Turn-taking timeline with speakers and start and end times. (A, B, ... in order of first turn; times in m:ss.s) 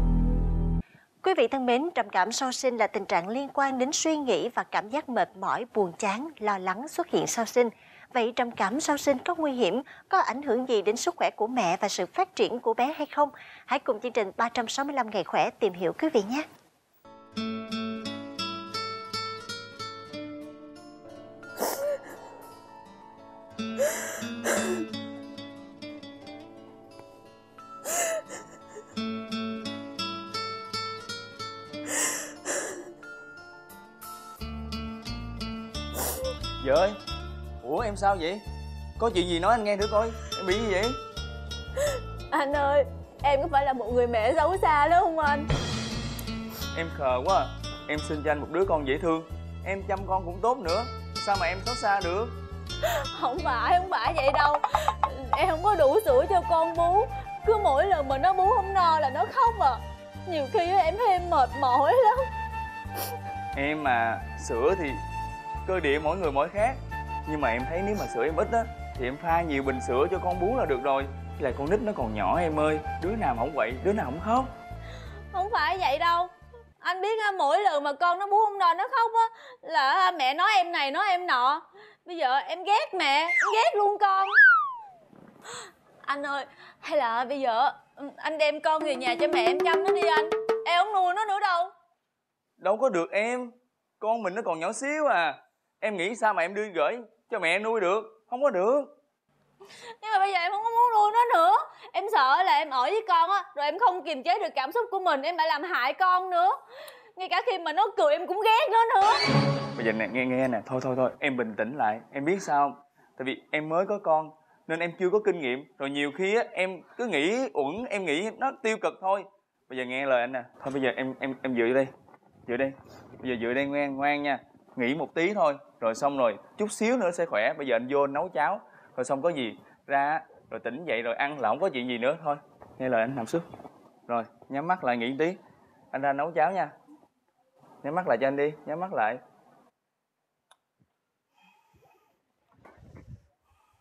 0:01.2-0:16.4 A
0:36.6-0:37.0 B
0:37.6-0:38.4 B
0:39.0-0:41.0 B
0:42.3-0:45.5 C
0:46.7-0:52.4 B
0:52.8-1:02.2 C
1:03.5-1:05.0 B
1:05.6-1:14.5 B
1:15.3-1:24.4 C
1:26.0-1:31.7 C
1:32.6-1:38.9 B
1:40.0-1:46.6 C
1:47.2-1:49.2 C
1:49.8-2:01.9 B
2:02.5-2:13.4 B
2:14.1-2:15.4 B
2:15.9-2:16.7 B
2:17.8-2:19.2 B